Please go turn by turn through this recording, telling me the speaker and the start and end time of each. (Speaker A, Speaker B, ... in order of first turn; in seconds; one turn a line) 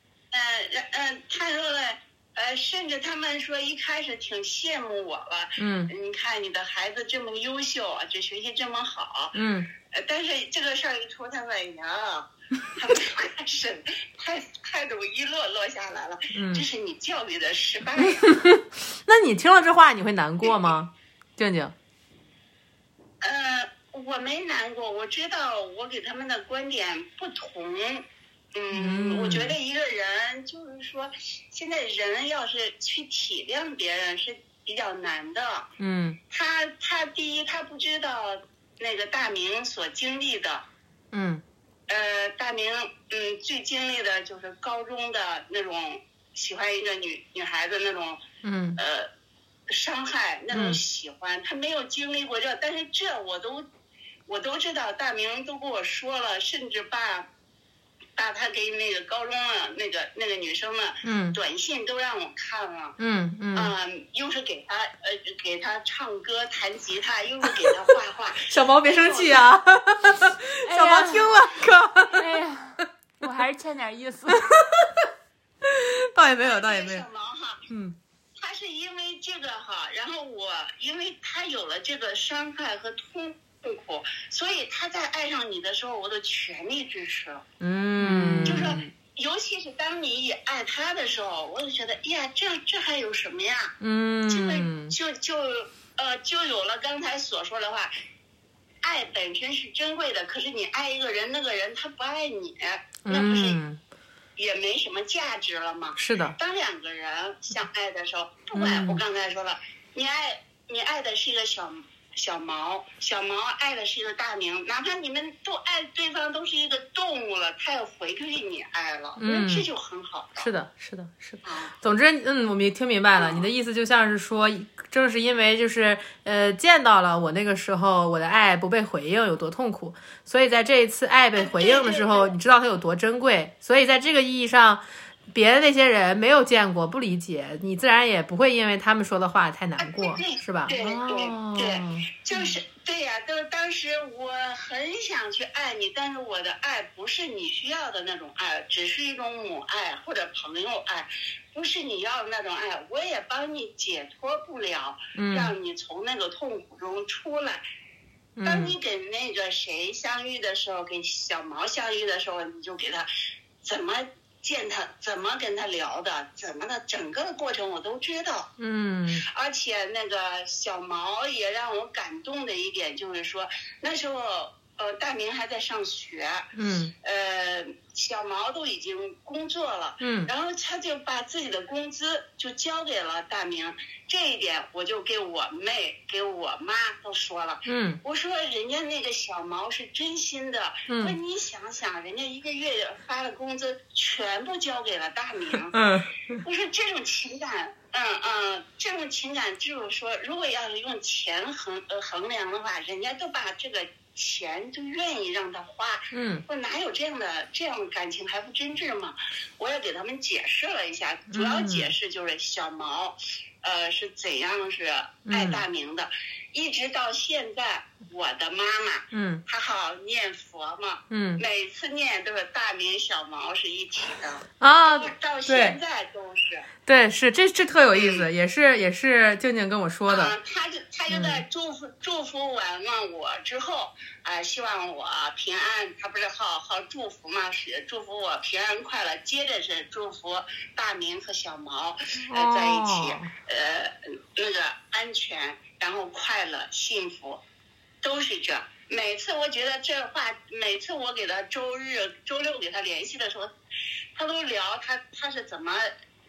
Speaker A: 0.3-9.4
Speaker B: 5.6-5.9
Speaker B: 9.3-9.7
Speaker A: 9.9-18.3
Speaker B: 16.3-16.6
Speaker B: 18.0-21.7
Speaker A: 23.2-35.7
Speaker B: 28.7-29.6
Speaker B: 35.8-36.2
Speaker A: 36.3-40.6
Speaker B: 41.1-41.4
Speaker A: 41.9-48.2
Speaker B: 48.4-48.8
Speaker A: 48.8-49.1
Speaker A: 49.7-53.6
Speaker B: 50.5-50.8
Speaker A: 54.2-57.3
Speaker A: 58.1-63.0
Speaker B: 61.0-61.4
Speaker B: 63.0-63.7
Speaker A: 63.5-69.5
Speaker B: 68.5-72.3
Speaker C: 70.6-71.3
Speaker C: 72.1-74.5
Speaker B: 74.3-75.1
Speaker B: 75.6-77.0
Speaker A: 76.4-77.6
Speaker B: 77.7-78.0
Speaker A: 78.4-87.4
Speaker B: 87.6-88.8
Speaker C: 88.0-88.9
Speaker A: 88.4-93.7
Speaker B: 93.8-94.9
Speaker A: 94.3-97.9
Speaker A: 98.8-103.6
Speaker B: 103.0-103.8
Speaker A: 104.4-120.5
Speaker B: 106.0-106.3
Speaker B: 108.5-109.0
Speaker B: 119.2-119.7
Speaker B: 120.4-142.6
Speaker A: 121.4-121.7
Speaker A: 123.2-123.5
Speaker A: 131.3-132.3
Speaker A: 139.8-157.6
Speaker B: 155.1-155.5
Speaker B: 158.4-158.8
Speaker A: 158.4-163.1
Speaker A: 163.6-168.5
Speaker B: 168.6-169.2
Speaker A: 169.2-176.5
Speaker B: 176.6-176.9
Speaker A: 177.0-195.8
Speaker B: 180.0-180.3
Speaker B: 187.7-188.0
Speaker B: 190.9-191.2
Speaker B: 195.7-196.4
Speaker A: 196.4-226.7
Speaker B: 206.1-206.4
Speaker B: 211.3-211.9
Speaker B: 215.3-215.7
Speaker B: 219.1-219.4
Speaker B: 221.1-221.4
Speaker B: 224.6-225.8
Speaker B: 226.9-230.3
Speaker A: 227.9-228.2
Speaker A: 230.1-247.4
Speaker B: 231.1-231.4
Speaker B: 242.2-243.3
Speaker A: 248.0-253.5
Speaker A: 254.1-255.9